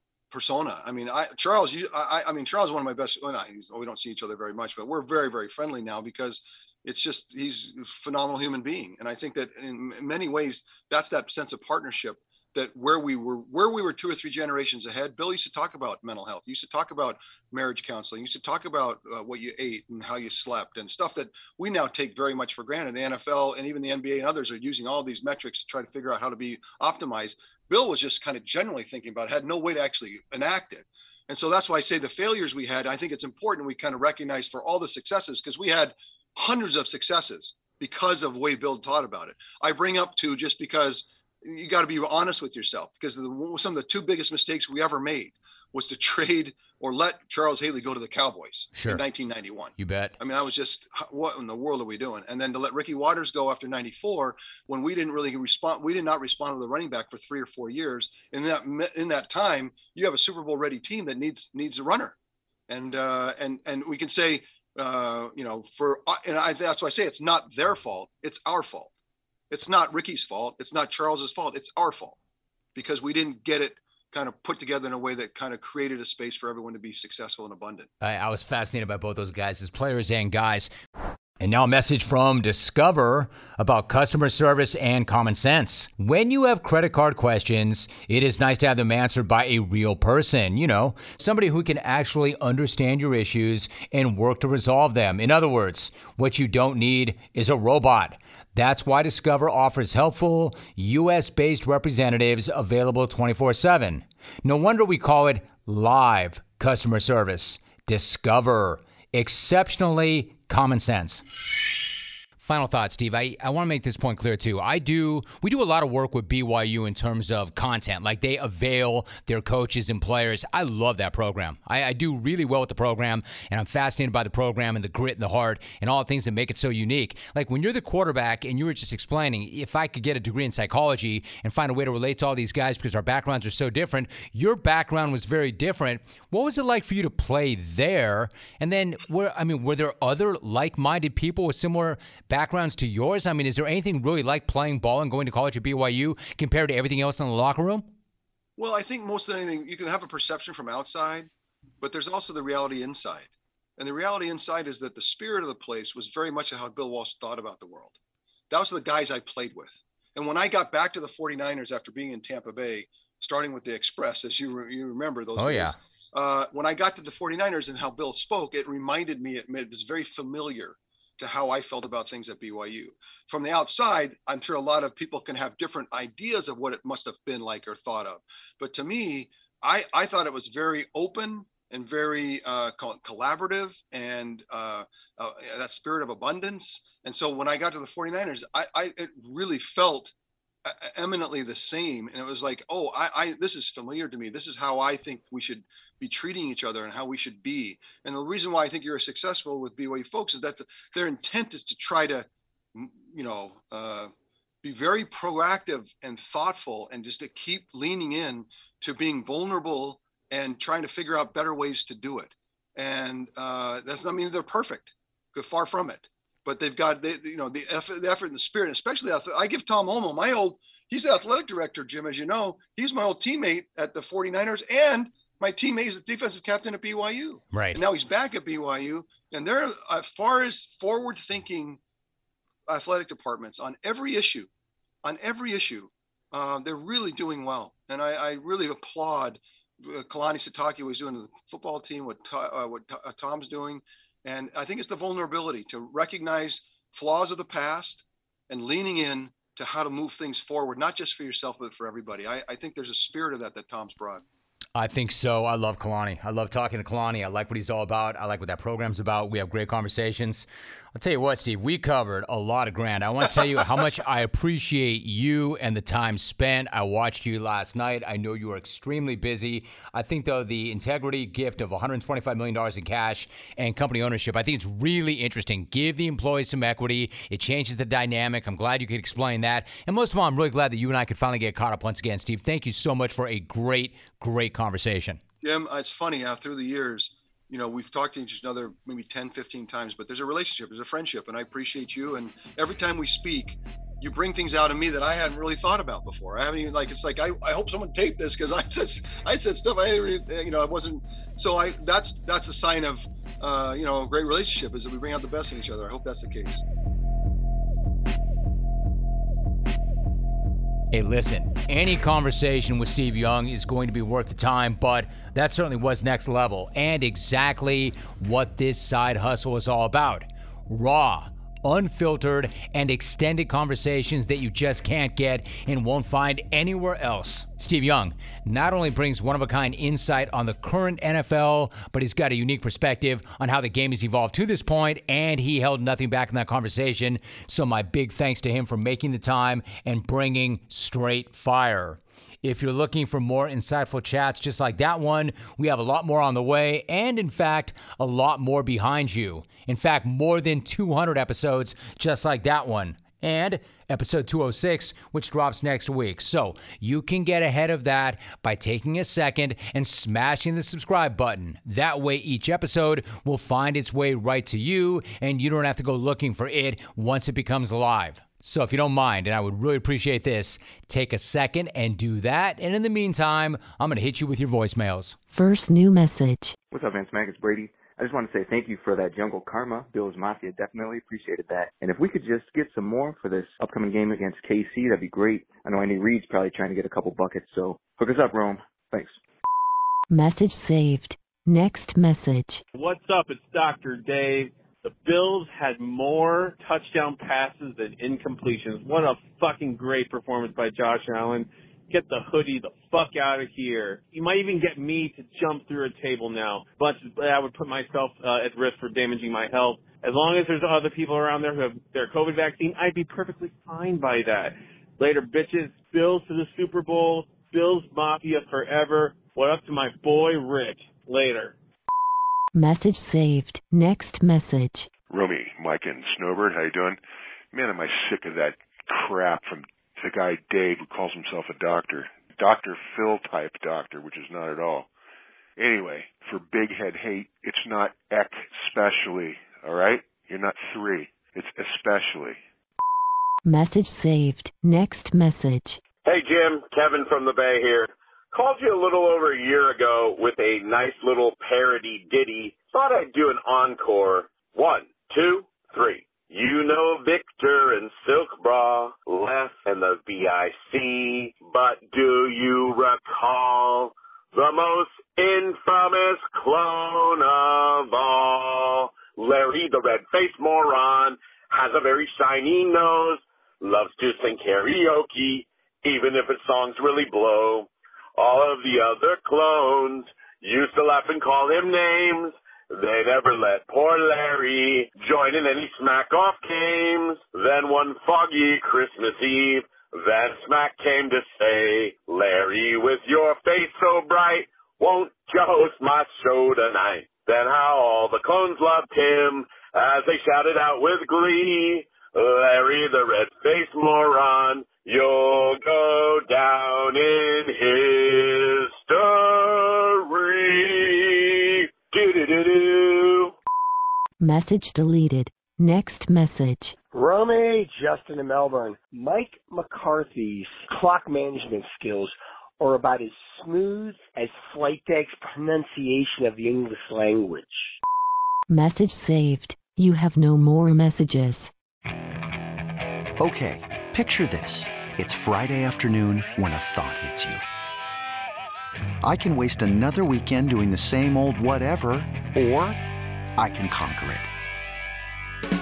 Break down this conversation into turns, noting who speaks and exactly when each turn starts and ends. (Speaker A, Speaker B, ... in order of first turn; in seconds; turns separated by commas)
Speaker A: 0.3-62.1, Speaker B: 48.8-49.0, Speaker B: 49.8-50.1, Speaker A: 62.7-68.9, Speaker A: 69.5-72.2, Speaker A: 72.7-77.9, Speaker B: 78.0-80.7, Speaker B: 81.4-111.2, Speaker B: 112.4-147.9, Speaker A: 148.6-151.3, Speaker A: 151.8-157.9, Speaker A: 158.5-190.1, Speaker B: 165.4-165.8, Speaker A: 190.6-204.1, Speaker A: 204.6-231.8, Speaker B: 227.5-227.8, Speaker A: 232.7-234.5, Speaker A: 235.0-254.2, Speaker B: 254.7-285.2, Speaker A: 285.4-306.6, Speaker B: 310.9-375.1, Speaker C: 375.3-376.6, Speaker D: 376.7-389.2, Speaker C: 390.1-392.6, Speaker E: 392.7-421.5, Speaker C: 422.5-424.9, Speaker F: 425.1-427.0, Speaker F: 427.5-434.9, Speaker F: 435.6-442.4, Speaker C: 443.4-445.8, Speaker G: 446.0-513.3, Speaker C: 514.2-516.7, Speaker H: 516.9-527.7, Speaker C: 528.5-531.5, Speaker I: 533.2-537.4, Speaker I: 539.0-542.8, Speaker I: 543.4-544.3